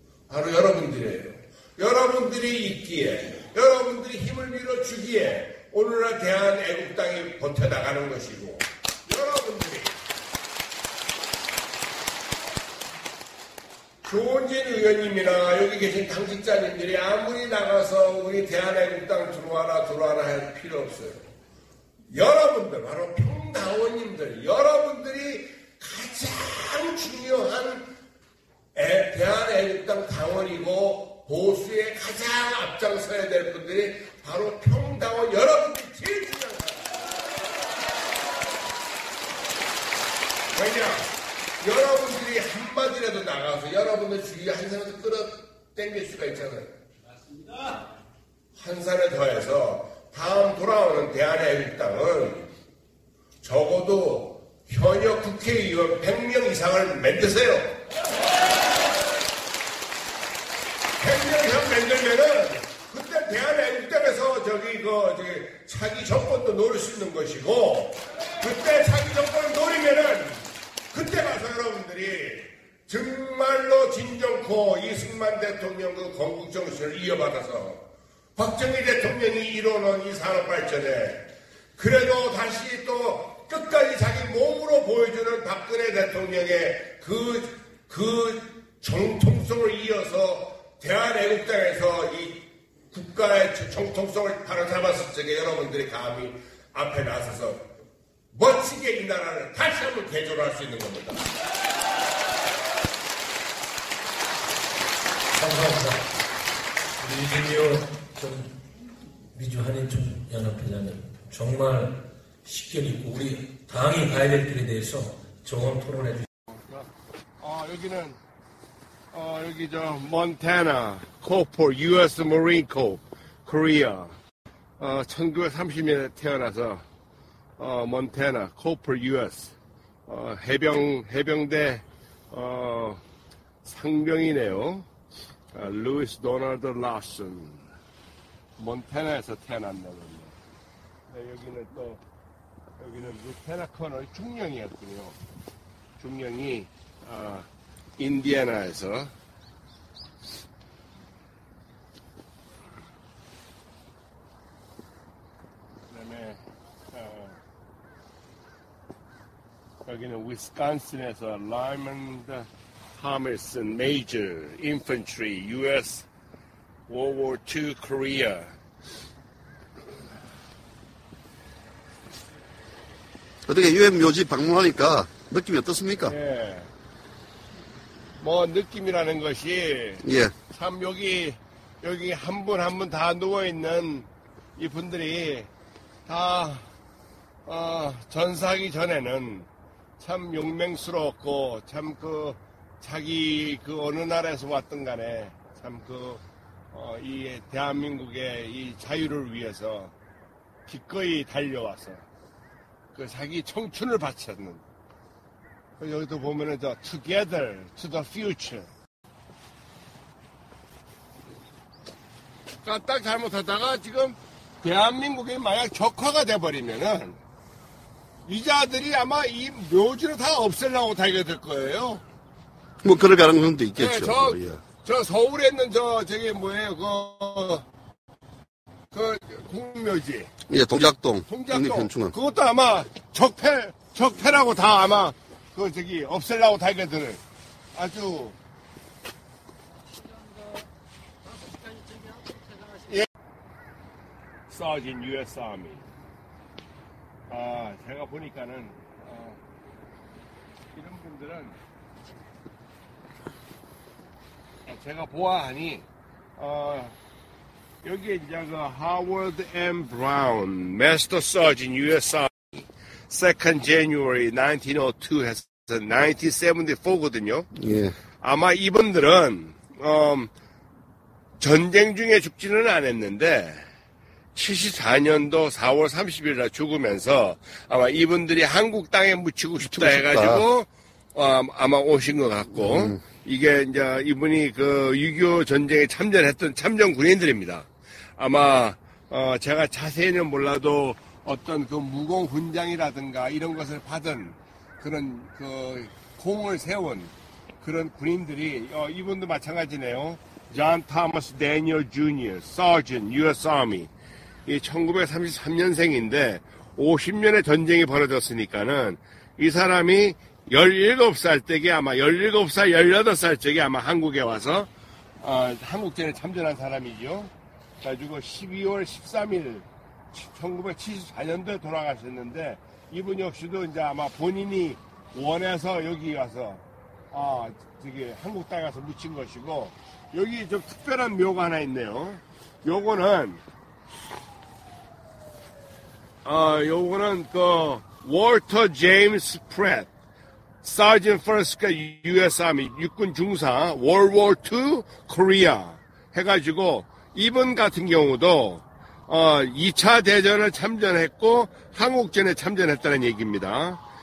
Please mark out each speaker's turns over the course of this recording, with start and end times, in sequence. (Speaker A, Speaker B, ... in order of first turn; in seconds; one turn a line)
Speaker A: 0.3-9.9
Speaker A: 14.0-21.2
Speaker A: 22.1-27.9
Speaker A: 28.7-36.8
Speaker A: 40.5-41.1
Speaker A: 41.6-46.7
Speaker A: 48.5-52.5
Speaker A: 53.4-57.8
Speaker A: 61.0-77.8
Speaker A: 78.3-81.2
Speaker A: 81.8-97.6
Speaker A: 98.3-101.3
Speaker B: 105.3-106.1
Speaker B: 107.0-108.5
Speaker B: 109.3-116.3
Speaker A: 116.5-116.9
Speaker A: 117.4-118.2
Speaker A: 119.1-124.2
Speaker A: 124.8-126.8
Speaker A: 127.6-129.5
Speaker A: 130.1-133.0
Speaker A: 133.6-134.9
Speaker A: 135.5-137.7
Speaker A: 138.6-140.3
Speaker A: 141.1-142.0
Speaker A: 142.8-145.2
Speaker A: 146.0-149.1
Speaker A: 155.9-156.4
Speaker A: 156.9-157.4
Speaker A: 159.8-166.1
Speaker A: 166.9-168.5
Speaker C: 173.5-176.1
Speaker A: 176.1-176.7
Speaker A: 178.2-185.5
Speaker C: 180.0-180.3
Speaker A: 186.1-186.7
Speaker A: 187.4-189.5
Speaker A: 190.0-199.9
Speaker A: 200.7-202.0
Speaker A: 202.9-204.6
Speaker A: 205.8-208.7
Speaker A: 212.6-217.2
Speaker A: 218.2-222.0
Speaker C: 222.8-224.6
Speaker A: 223.7-227.7
Speaker A: 228.9-230.3
Speaker C: 230.5-232.1
Speaker A: 231.2-237.2
Speaker A: 237.7-238.3
Speaker A: 244.5-245.8
Speaker A: 247.3-249.4
Speaker A: 250.7-251.6
Speaker A: 254.7-255.8
Speaker A: 256.4-256.9
Speaker A: 257.8-262.3
Speaker A: 263.1-267.5
Speaker C: 267.6-267.9
Speaker A: 268.2-270.3
Speaker A: 271.4-273.6
Speaker A: 274.3-303.9
Speaker C: 279.7-280.4
Speaker A: 304.4-314.7
Speaker A: 315.2-333.4
Speaker A: 336.2-339.9
Speaker A: 340.6-353.8